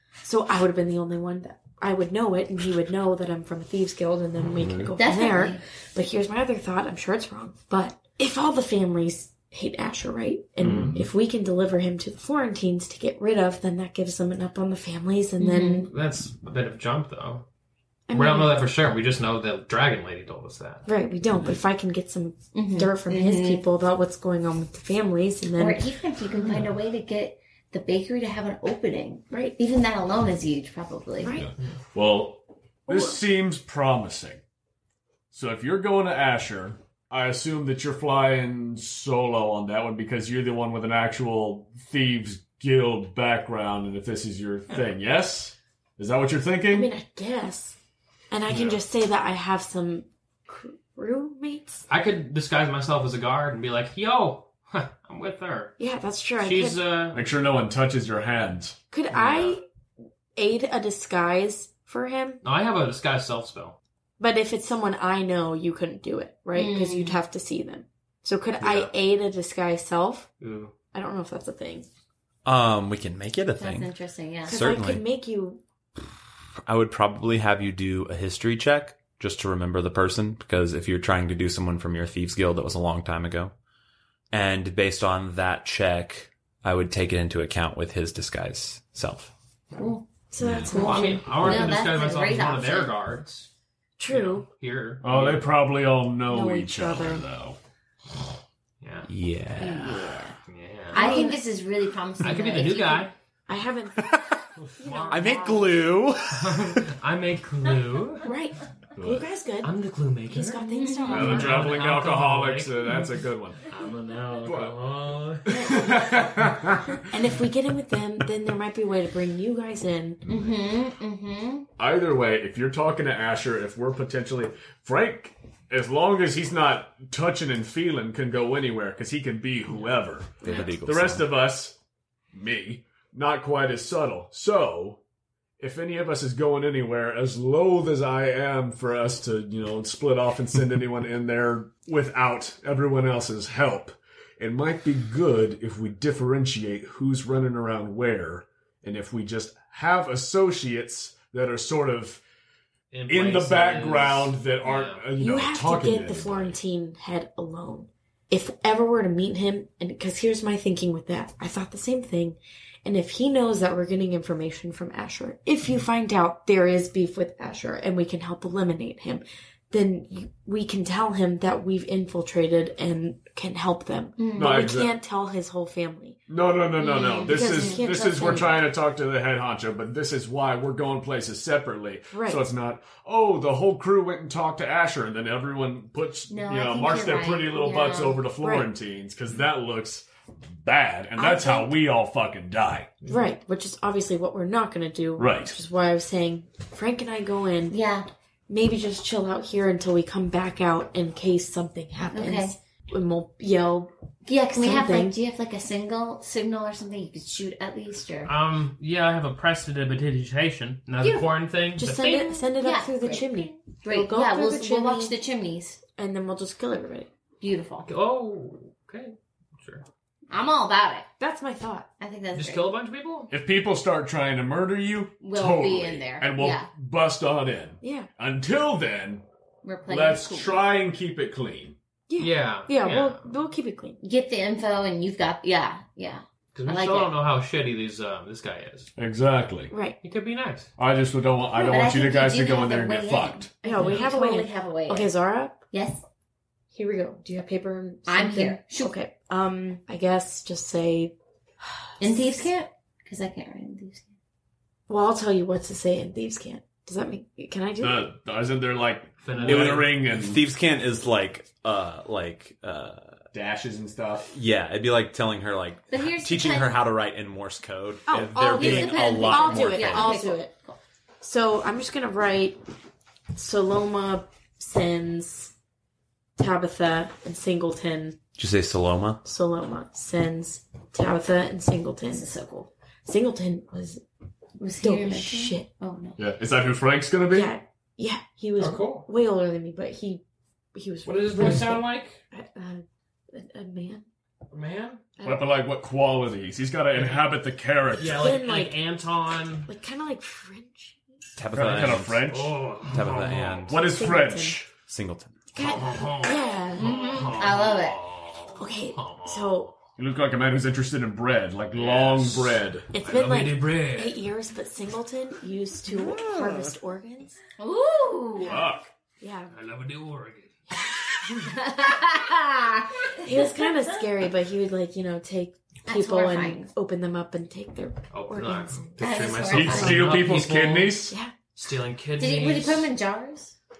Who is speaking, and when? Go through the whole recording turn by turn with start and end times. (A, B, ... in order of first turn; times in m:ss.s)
0:00.2-0:15.9 A
0:04.6-0:04.9 B
0:05.0-0:05.6 C
0:10.6-0:11.0 B
0:15.4-0:15.9 C
0:15.8-0:17.4 D
0:18.1-0:18.6 A
0:18.1-0:20.8 D
0:20.8-0:25.8 A
0:22.5-0:23.6 C
0:25.6-0:31.3 C
0:29.3-0:29.6 A
0:31.2-0:31.5 A
0:31.4-0:34.4 B
0:32.9-0:33.2 A
0:35.3-0:46.9 B
0:46.7-0:47.8 A
0:48.3-0:51.8 A
0:48.5-0:48.8 B
0:51.9-0:55.8 D
0:55.8-0:56.8 A
0:56.4-0:57.2 D
0:57.1-0:58.8 B
0:58.9-0:59.6 A
0:59.1-0:59.5 D
1:00.4-1:02.4 A
1:02.4-1:03.8 D
1:04.2-1:10.3 A
1:06.5-1:07.2 C
1:10.4-1:10.7 D
1:10.9-1:11.9 A
1:12.4-1:13.9 E
1:13.6-1:14.6 C
1:14.4-1:15.0 E
1:14.5-1:15.6 A
1:16.6-1:23.5 E
1:24.3-1:29.3 E
1:29.8-1:30.0 C
1:30.3-1:31.6 A
1:30.7-1:32.9 C
1:30.7-1:33.5 D
1:34.0-1:34.4 A
1:34.1-1:35.5 D
1:35.0-1:37.6 B
1:36.3-1:37.2 A
1:38.8-1:39.1 D
1:39.1-1:40.2 E
1:39.6-1:40.4 C
1:40.5-1:41.1 D
1:40.9-1:43.1 C
1:40.9-1:41.4 A
1:42.2-1:43.1 D
1:43.5-1:44.0 A
1:44.0-1:44.4 E
1:44.8-1:45.7 A
1:44.8-1:45.4 D
1:45.0-1:45.6 C
1:45.1-1:46.8 E
1:46.3-1:48.3 D
1:48.2-1:49.7 A
1:49.0-1:49.2 B
1:49.6-1:55.5 D
1:50.3-1:51.7 A
1:50.7-1:51.6 C
1:51.1-1:53.6 B
1:54.4-1:54.8 B
1:55.4-1:57.0 B
1:55.5-1:56.0 A
1:57.1-2:00.2 A
2:00.2-2:00.6 B
2:00.3-2:01.7 C
2:01.8-2:11.8 B
2:10.4-2:11.3 E
2:12.3-2:15.0 B
2:15.6-2:32.2 B
2:32.9-2:35.0 D
2:33.1-2:36.6 B
2:35.2-2:56.2 A
2:54.2-2:54.6 C
2:54.3-2:54.9 B
2:56.3-3:10.0 B
2:56.8-2:58.6 C
2:57.2-2:58.6 A
3:02.1-3:02.4 A
3:06.3-3:08.2 C
3:08.4-3:08.7 A
3:10.6-3:12.9 B
3:11.2-3:11.8 A
3:13.0-3:17.8 A
3:15.2-3:15.6 B
3:17.7-3:18.1 C
3:18.5-3:23.9 A
3:22.1-3:22.6 C
3:24.2-3:28.3 C
3:24.5-3:25.2 A
3:28.2-3:32.2 D
3:31.8-3:35.2 A
3:32.1-3:35.8 C
3:36.0-3:37.1 A
3:37.4-3:37.9 C
3:37.8-3:39.8 D
3:40.3-3:41.1 C
3:41.2-3:41.9 A
3:42.0-3:42.7 C
3:42.3-3:43.3 D
3:43.3-3:49.2 B
3:45.2-3:46.7 C
3:47.8-3:48.1 A
3:49.6-3:50.7 C
3:49.8-3:51.8 B
3:52.1-3:54.0 A
3:52.2-3:53.2 D
3:54.0-3:57.1 C
3:56.5-3:58.9 D
3:59.0-3:59.7 B
3:59.7-4:00.0 A
4:00.0-4:00.7 D
4:00.8-4:03.5 B
4:01.5-4:05.1 C
4:03.6-4:05.6 A
4:03.7-4:04.1 D
4:05.7-4:06.0 C
4:06.7-4:12.4 A
4:08.1-4:08.9 C
4:12.0-4:14.1 C
4:14.9-4:18.1 A
4:17.8-4:20.4 B
4:19.2-4:20.0 D
4:19.4-4:23.2 E
4:23.3-4:24.3 B
4:24.3-4:30.2 E
4:25.9-4:26.8 C
4:28.1-4:30.5 A
4:28.5-4:30.8 C
4:31.2-4:32.6 A
4:33.3-4:35.5 A
4:36.4-4:38.2 A
4:38.4-4:39.2 E
4:39.2-4:42.3 A
4:42.1-4:42.7 C
4:43.0-4:44.0 A
4:44.6-4:46.2 C
4:44.8-4:45.7 A
4:46.2-4:47.5 B
4:47.3-4:50.2 A
4:48.6-4:49.1 D
4:50.7-4:54.0 A
4:51.0-4:52.2 D
4:54.5-4:55.0 D
4:55.2-4:55.4 A
4:55.2-4:58.4 B
4:56.9-4:57.3 D
4:57.9-4:59.7 D
4:58.1-4:58.8 A
4:59.7-5:01.0 A
5:01.4-5:02.3 E
5:01.5-5:02.7 B
5:01.8-5:03.7 D
5:02.8-5:03.8 E
5:03.7-5:04.7 B
5:03.8-5:04.6 A
5:04.9-5:05.4 E
5:05.5-5:07.0 A
5:05.6-5:09.6 D
5:06.8-5:08.0 C
5:08.6-5:09.7 A
5:10.0-5:12.9 B
5:11.7-5:14.2 D
5:12.9-5:17.4 A
5:17.6-5:18.6 C
5:18.4-5:18.7 A
5:18.4-5:18.9 B
5:19.2-5:19.5 A
5:19.5-5:20.6 D
5:21.3-5:23.9 C
5:23.2-5:29.0 A
5:25.9-5:26.7 C
5:28.1-5:32.9 D
5:29.0-5:30.2 C
5:29.5-5:31.1 B
5:32.2-5:33.5 C